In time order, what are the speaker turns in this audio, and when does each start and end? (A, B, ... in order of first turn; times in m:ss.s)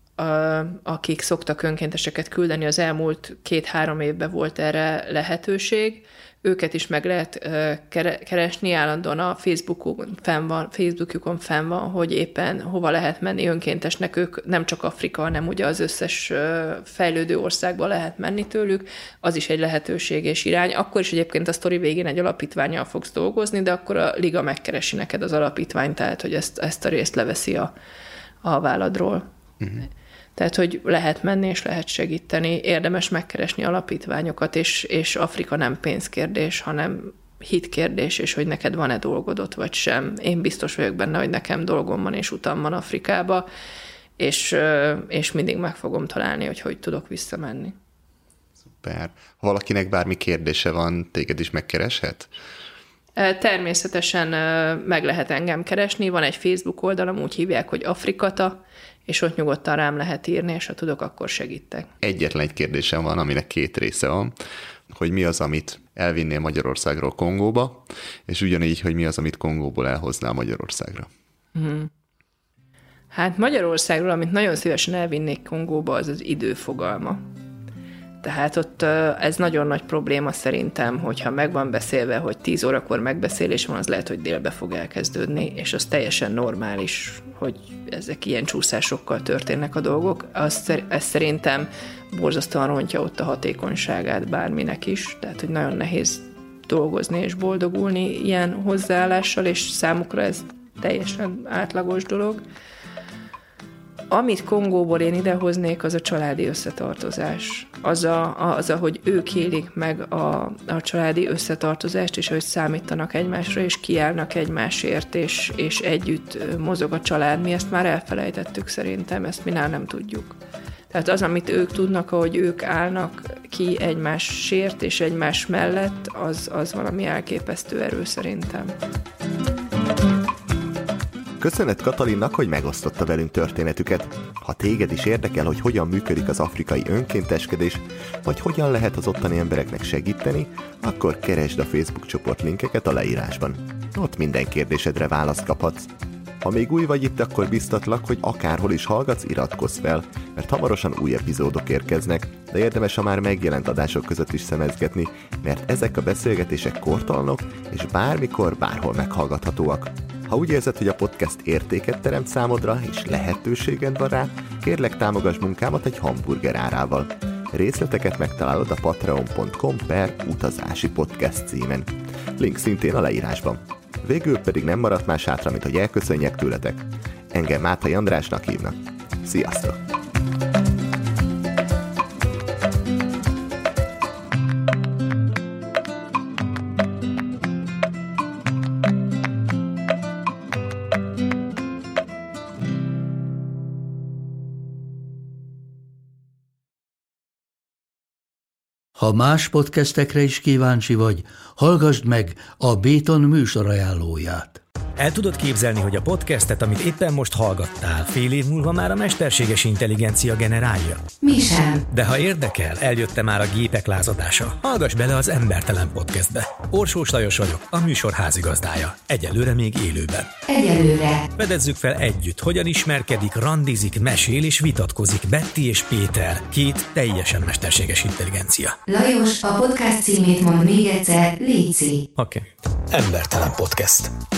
0:00.2-0:27.7 A
0:28.4-0:29.2 A
0:30.4-0:43.5 A
0:44.2-0:47.8 A
0:48.7-0:52.3 B
0:53.2-1:01.9 A
1:02.0-1:04.4 B
1:04.9-1:11.1 B
1:11.6-1:11.9 A
1:13.1-1:17.2 A
1:18.2-1:42.4 A
1:44.1-2:00.4 A
2:00.9-2:08.8 A
2:11.4-2:25.9 C
2:26.4-2:59.8 C
3:19.0-3:24.6 D
3:25.0-3:31.1 E
3:31.2-3:31.8 F
3:31.9-3:40.3 E
3:40.5-3:41.3 F
3:41.4-3:48.8 E
3:48.9-3:52.0 F
3:52.2-3:54.1 E